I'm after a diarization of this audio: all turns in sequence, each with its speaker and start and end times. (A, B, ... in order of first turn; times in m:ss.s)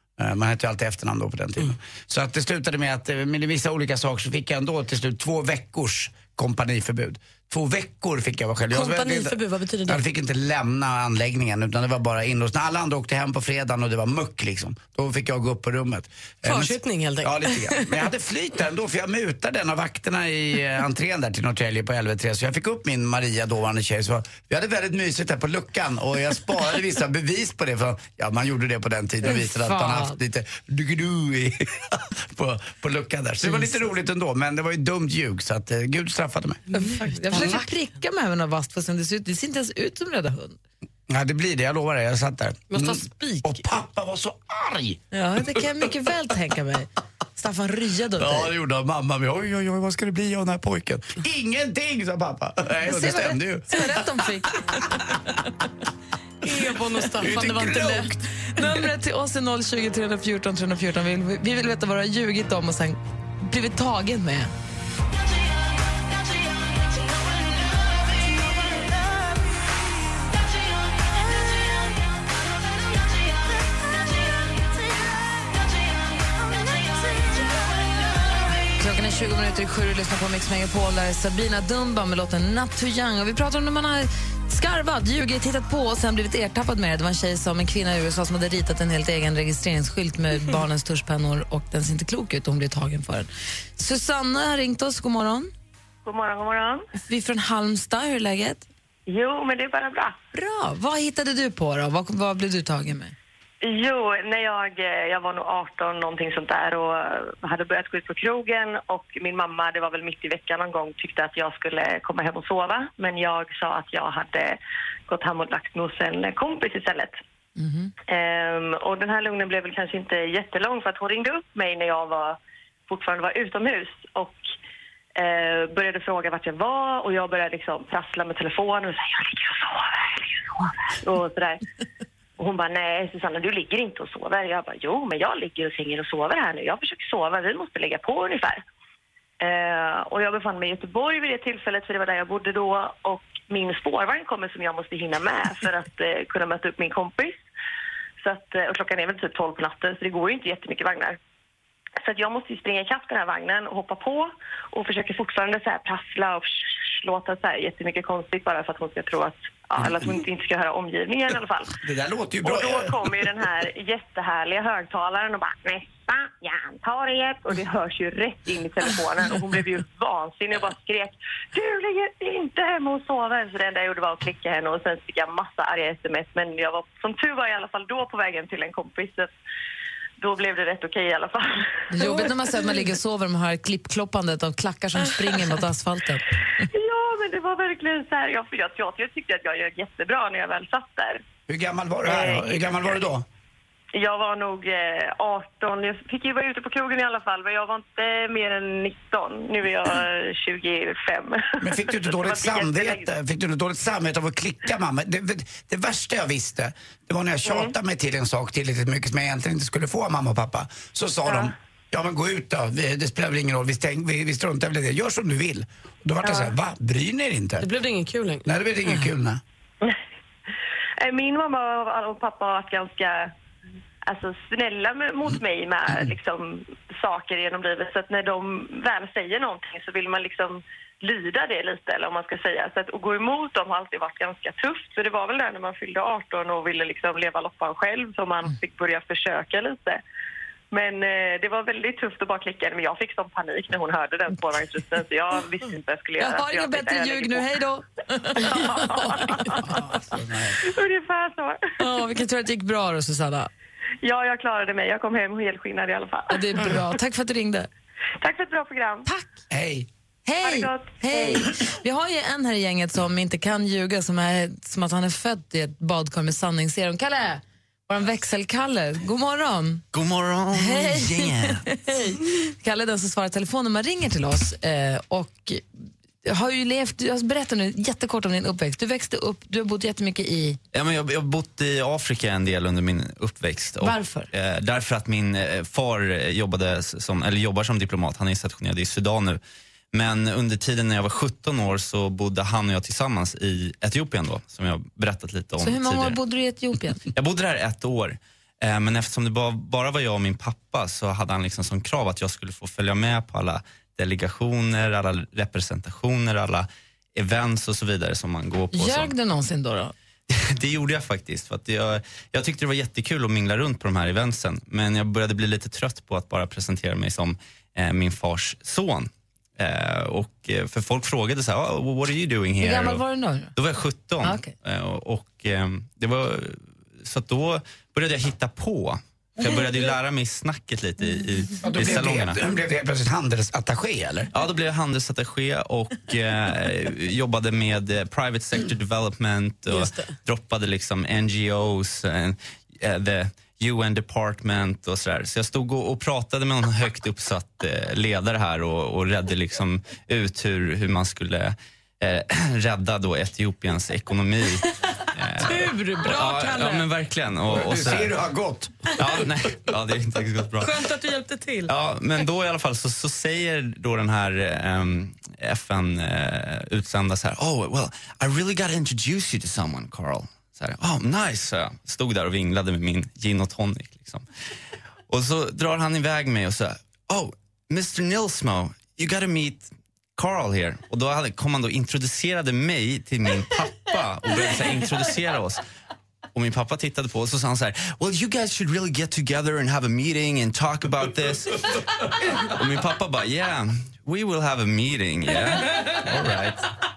0:00.2-0:36.7 A
0:08.7-0:10.0 B
0:16.4-0:18.0 B
0:29.2-0:30.2 C
0:36.7-0:37.6 B
0:36.7-0:40.6 C
0:37.3-0:37.6 A
0:41.1-0:45.0 A
0:42.7-0:43.6 B
0:45.1-0:48.5 C
0:48.2-0:54.1 A
0:52.9-0:54.9 C
0:54.7-0:55.2 A
0:56.4-0:58.2 B
0:57.2-0:58.2 A
0:58.6-1:04.5 C
1:18.8-1:35.5 C
1:36.0-1:36.8 D
1:37.0-1:38.6 C
1:39.1-1:40.2 D
1:40.3-1:43.2 C
1:43.6-1:57.2 D
1:57.6-1:57.9 C
1:58.1-2:02.4 D
2:02.9-2:04.4 D
2:05.2-2:11.6 D
2:12.4-2:18.6 D
2:19.4-2:27.4 D
2:28.2-2:31.2 D
2:32.0-2:41.7 D
2:41.8-2:43.1 A
2:42.4-2:59.3 D
3:00.2-3:02.3 D
3:01.9-3:06.3 C
3:06.6-3:11.2 D
3:11.5-3:13.3 A
3:12.1-3:12.8 D
3:14.0-3:23.1 D
3:21.6-3:37.7 A
3:37.6-3:39.1 B
3:38.4-3:39.4 A
3:41.0-3:43.3 D
3:44.0-4:00.0 D
4:00.7-4:07.5 D
4:06.2-4:09.7 C
4:08.4-4:09.8 D
4:09.6-4:10.6 A
4:10.6-4:11.6 D
4:11.8-4:13.5 C
4:14.0-4:16.7 D
4:16.3-4:17.7 C
4:18.2-4:19.1 D
4:19.5-4:19.9 A
4:20.3-4:29.8 C
4:20.4-4:21.5 D
4:29.9-4:31.7 E
4:30.5-4:40.6 C
4:40.7-4:49.4 E
4:43.8-4:44.3 C
4:49.9-4:56.2 E
4:55.6-4:57.0 C
4:57.1-5:09.1 E
5:08.7-5:09.9 C
5:10.3-5:32.4 E
5:22.6-5:23.5 C
5:24.2-5:24.5 C
5:31.6-5:34.3 A
5:34.3-5:58.2 E
5:39.7-5:40.1 B
5:55.4-5:56.9 B
5:57.5-5:58.9 A
5:58.9-6:00.9 E
6:00.6-6:01.7 B
6:01.7-6:14.2 E
6:15.1-6:25.6 E
6:26.3-6:36.7 E